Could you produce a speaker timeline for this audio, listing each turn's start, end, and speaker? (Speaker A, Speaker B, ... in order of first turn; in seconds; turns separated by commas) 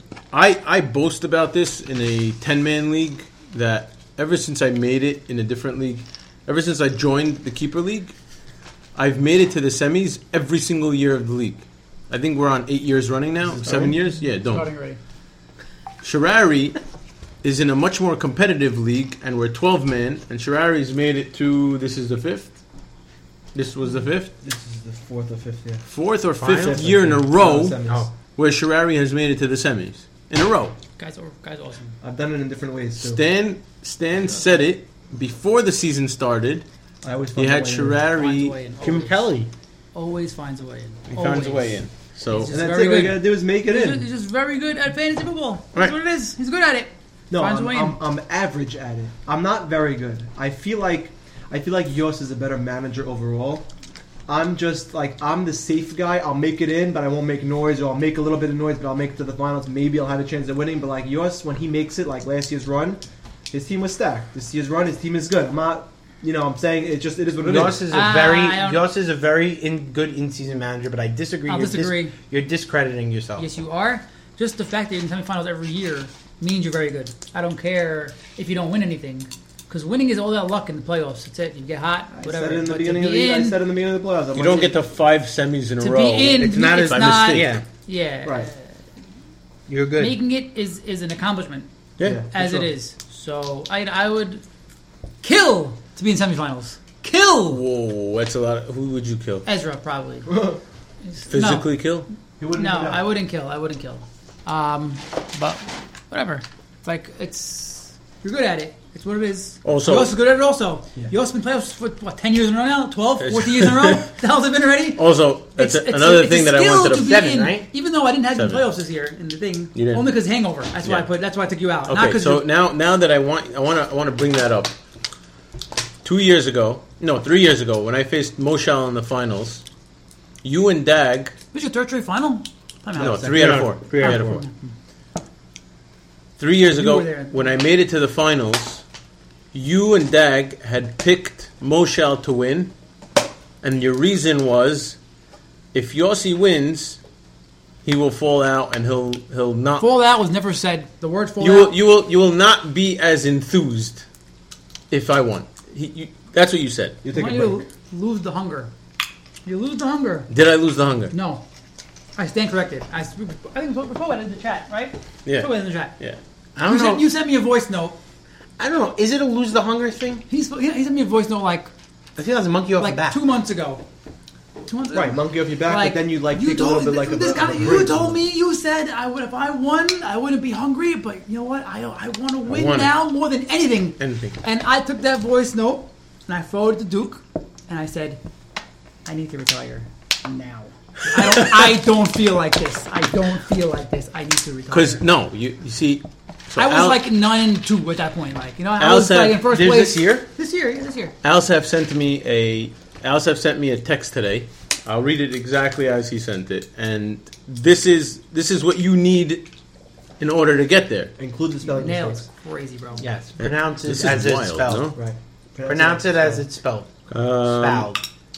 Speaker A: 0.3-8.1, Speaker A: 8.9-14.7, Speaker B: 13.6-13.9, Speaker C: 14.1-15.0, Speaker A: 16.0-16.8, Speaker A: 17.4-22.5, Speaker A: 23.5-24.3, Speaker B: 24.4-25.8, Speaker A: 25.9-30.8, Speaker D: 26.4-26.9, Speaker B: 26.4-28.1, Speaker D: 27.8-28.1, Speaker C: 31.0-32.0, Speaker B: 32.0-33.2, Speaker A: 33.0-36.6, Speaker B: 37.0-38.0, Speaker A: 37.4-38.5, Speaker C: 38.1-39.3, Speaker D: 38.8-39.5, Speaker C: 39.9-48.0, Speaker A: 41.1-42.5, Speaker B: 42.4-44.0, Speaker B: 47.3-53.7, Speaker B: 54.3-63.0, Speaker B: 63.5-67.8, Speaker D: 67.4-73.4, Speaker C: 67.9-68.8, Speaker C: 71.5-72.1, Speaker C: 73.3-83.6, Speaker B: 82.1-84.8, Speaker A: 84.3-87.6, Speaker C: 85.8-88.7, Speaker D: 86.4-87.6, Speaker B: 88.2-88.5, Speaker D: 89.7-90.2, Speaker C: 90.0-91.7, Speaker B: 92.0-92.7, Speaker C: 92.3-94.4, Speaker C: 95.2-97.6, Speaker A: 97.5-99.5, Speaker C: 99.5-100.3, Speaker B: 100.2-100.6, Speaker C: 101.0-101.7, Speaker A: 101.3-102.1, Speaker B: 102.4-103.1, Speaker C: 102.5-122.5, Speaker A: 109.6-110.1, Speaker A: 113.2-114.0, Speaker A: 115.0-117.2, Speaker D: 117.0-117.7, Speaker A: 118.3-118.7, Speaker A: 119.7-120.2, Speaker A: 120.8-121.1, Speaker A: 121.9-124.7, Speaker A: 126.0-129.6, Speaker A: 130.4-131.3, Speaker C: 131.5-133.3, Speaker B: 132.9-133.7, Speaker A: 133.0-134.4, Speaker D: 133.3-134.4, Speaker C: 133.9-134.7, Speaker A: 136.4-138.8, Speaker C: 136.7-137.6, Speaker A: 139.5-142.7, Speaker A: 143.6-145.0, Speaker A: 145.7-147.0, Speaker A: 147.8-149.9, Speaker C: 149.8-151.8, Speaker A: 151.4-154.0, Speaker A: 154.9-157.0, Speaker B: 157.0-157.6, Speaker C: 157.1-158.7, Speaker C: 159.4-160.3, Speaker A: 160.3-161.1, Speaker C: 161.1-161.4, Speaker C: 162.2-165.9, Speaker A: 165.2-166.2, Speaker D: 166.6-167.0, Speaker C: 166.6-168.0, Speaker D: 168.6-170.2, Speaker C: 170.3-171.7, Speaker D: 172.2-173.2, Speaker C: 172.8-173.8, Speaker C: 174.6-188.2, Speaker B: 174.9-178.2, Speaker A: 182.5-182.9, Speaker A: 184.0-184.3, Speaker C: 189.0-195.0, Speaker A: 191.2-191.7, Speaker A: 194.7-197.0, Speaker C: 196.6-201.1, Speaker A: 198.8-199.4, Speaker D: 199.4-200.2, Speaker A: 201.2-209.4, Speaker A: 210.2-211.1, Speaker B: 211.2-212.2, Speaker C: 211.6-213.1, Speaker D: 213.0-214.9, Speaker A: 213.4-215.0, Speaker B: 214.9-216.4, Speaker D: 215.6-216.9, Speaker A: 217.1-217.9, Speaker D: 217.4-218.0